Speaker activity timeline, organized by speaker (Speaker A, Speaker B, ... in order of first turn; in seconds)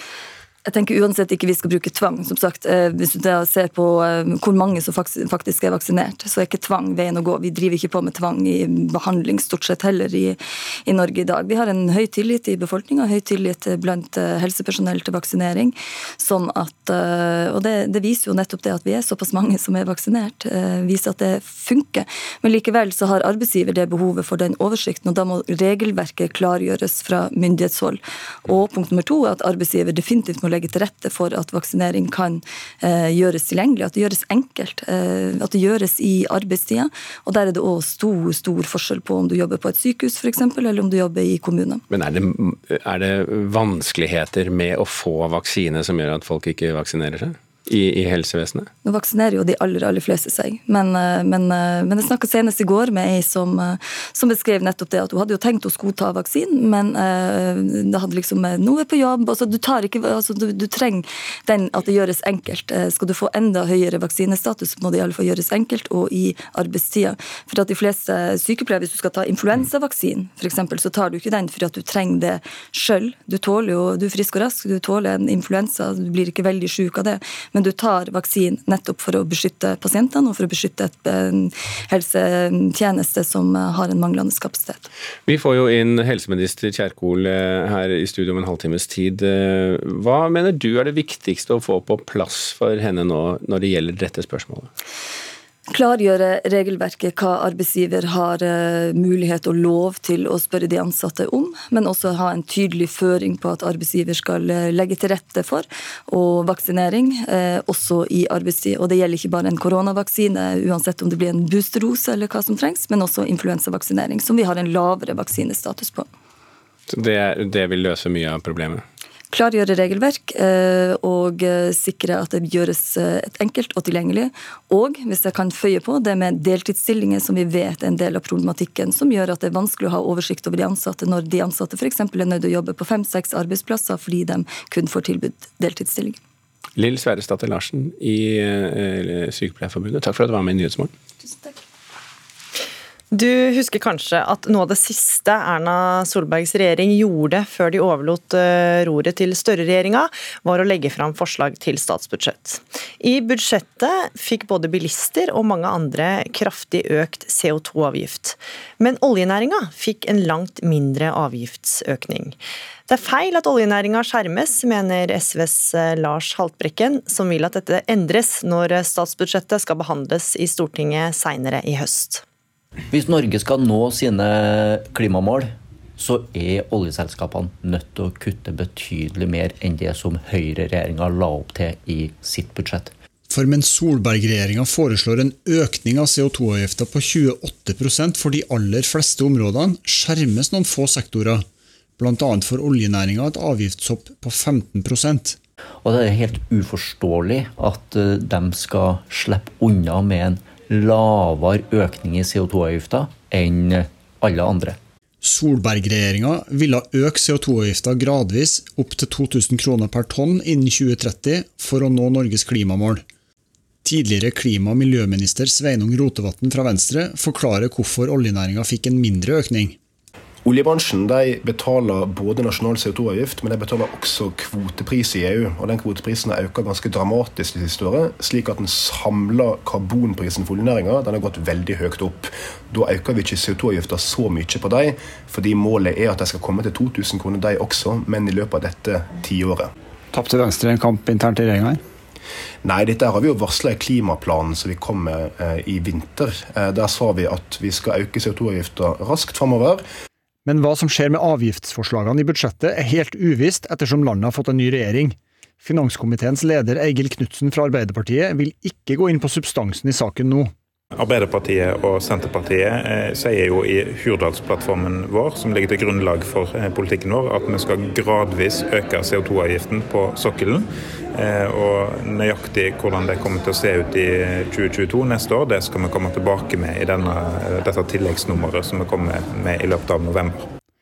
Speaker A: 0.7-41.8, 48.8-84.9, 95.7-116.1, 119.3-136.2
Speaker B: 41.9-48.7, 85.3-94.7, 116.9-118.8, 136.8-140.9
Speaker C: 143.1-162.4, 162.9-172.2
Speaker D: 172.9-182.9, 195.8-204.8
Speaker E: 183.3-191.5, 192.0-195.4, 205.2-213.1, 213.8-219.8
Speaker F: 220.4-239.7, 242.6-249.8
Speaker G: 240.1-241.8, 250.5-260.5
Speaker H: 261.0-280.4